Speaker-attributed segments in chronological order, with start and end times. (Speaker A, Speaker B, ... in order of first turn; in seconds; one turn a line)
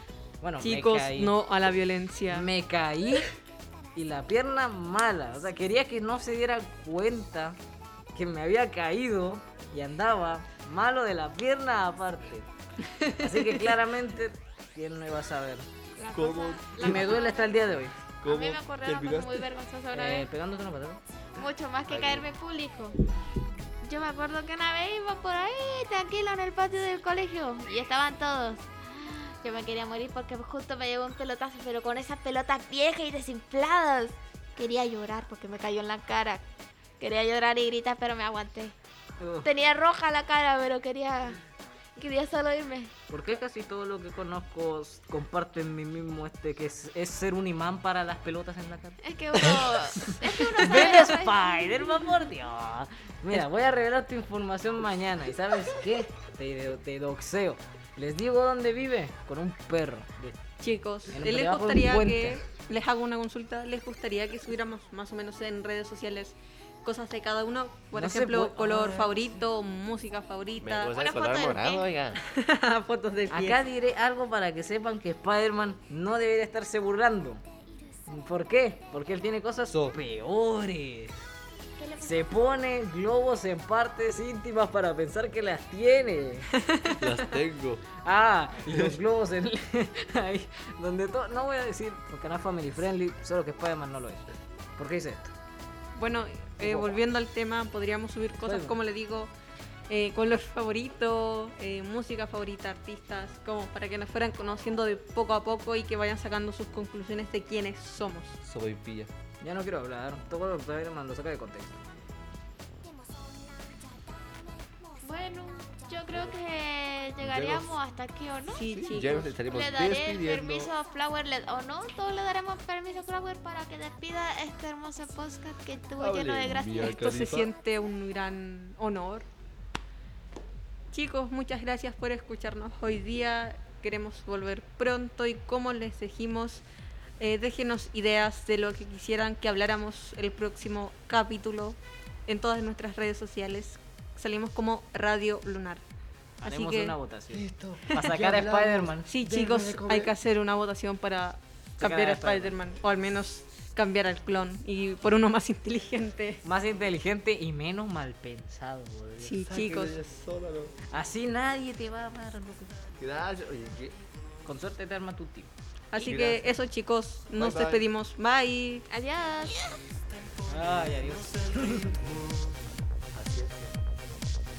Speaker A: 0.4-1.4
Speaker B: 0.6-2.5
Speaker A: 2.3-3.3
Speaker A: 3.9-7.6
Speaker A: 8.1-12.5
Speaker B: 12.9-13.2
Speaker A: 13.1-15.7
Speaker C: 16.0-17.6
Speaker D: 16.1-17.2
Speaker A: 16.8-17.9
Speaker D: 18.2-19.5
Speaker C: 18.2-20.3
Speaker A: 19.9-21.0
Speaker C: 21.3-22.9
Speaker D: 21.9-22.3
Speaker C: 23.8-36.4
Speaker C: 37.0-38.7
Speaker A: 39.2-39.5
Speaker C: 39.4-41.4
Speaker C: 42.0-42.9
Speaker A: 43.1-60.4
Speaker C: 49.0-52.1
Speaker B: 60.6-70.9
Speaker A: 61.1-62.4
Speaker A: 67.9-69.4
Speaker D: 70.6-72.2
Speaker C: 70.9-71.8
Speaker B: 72.2-73.6
Speaker A: 73.3-77.4
Speaker A: 78.1-81.2
Speaker D: 79.7-80.0
Speaker C: 81.8-82.2
Speaker A: 82.0-86.5
Speaker B: 86.6-87.0
Speaker D: 87.0-87.8
Speaker A: 88.0-94.2
Speaker D: 88.7-89.0
Speaker A: 94.8-95.3
Speaker B: 96.0-99.3
Speaker A: 96.6-97.0
Speaker A: 98.4-98.7
Speaker B: 99.9-108.4
Speaker D: 108.4-109.1
Speaker A: 109.4-111.8
Speaker C: 115.0-118.6
Speaker D: 116.1-116.4
Speaker D: 117.2-117.7
Speaker B: 118.5-119.4
Speaker D: 118.7-120.7
Speaker C: 119.5-127.0
Speaker D: 126.0-127.5
Speaker B: 126.8-129.2
Speaker B: 130.9-136.6
Speaker B: 137.2-145.8
Speaker A: 146.4-149.1
Speaker B: 146.4-146.9
Speaker D: 147.3-150.1
Speaker B: 149.0-156.4
Speaker A: 151.8-152.5
Speaker A: 156.4-159.4
Speaker B: 159.2-160.0
Speaker D: 159.3-160.7
Speaker A: 160.9-162.7
Speaker D: 163.0-163.9
Speaker A: 164.4-165.5
Speaker B: 165.9-168.8
Speaker D: 166.0-166.5
Speaker D: 167.3-167.8
Speaker C: 168.9-169.7
Speaker D: 170.2-172.6
Speaker A: 170.5-171.9
Speaker D: 173.1-173.8